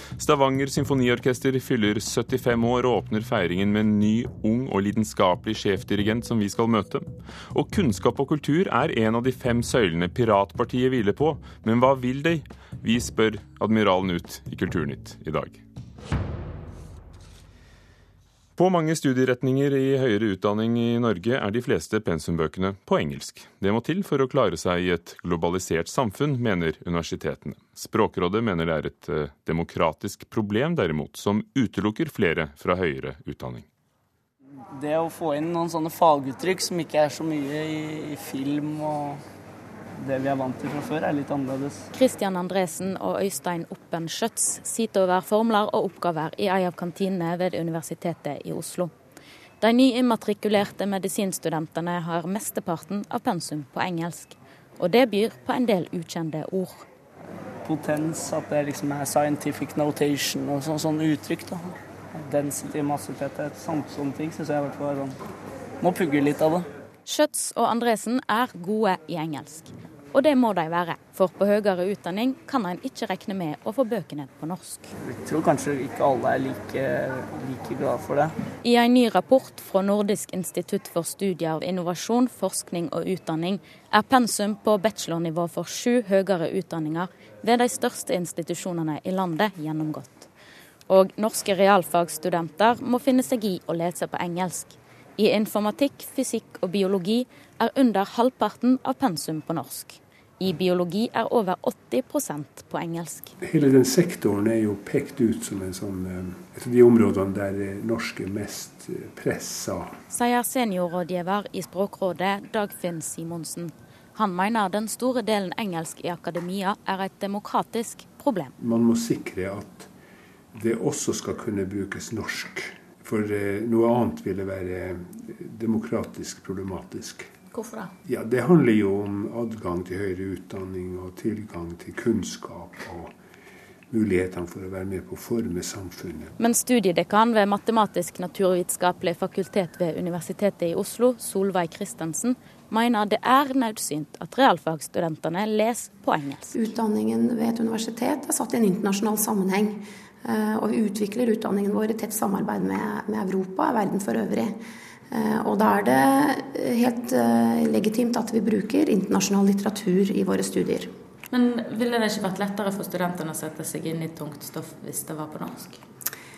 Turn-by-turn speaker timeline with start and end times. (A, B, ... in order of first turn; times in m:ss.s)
0:00.2-0:15.6 A
0:18.6-0:33.6 A
0:34.8-0:39.2 B
0:40.0-0:41.8 B
0:41.9-0:48.9 C
0:49.6-0:56.9 C
0:57.6-1:01.6 B
1:02.2-1:05.1 B
1:05.8-1:06.6 B
1:07.0-1:14.9 C
1:15.1-1:18.3 B
1:18.6-1:30.3 C
1:30.9-1:43.3 C
1:43.4-1:49.9 D
1:50.1-1:58.5 C
1:58.6-1:59.9 D
2:00.5-2:07.3 D
2:08.0-2:13.1 D
2:13.9-2:16.3 D
2:16.4-2:26.6 C
2:26.5-2:34.6 E
2:35.1-2:40.9 E
2:41.3-2:45.8 C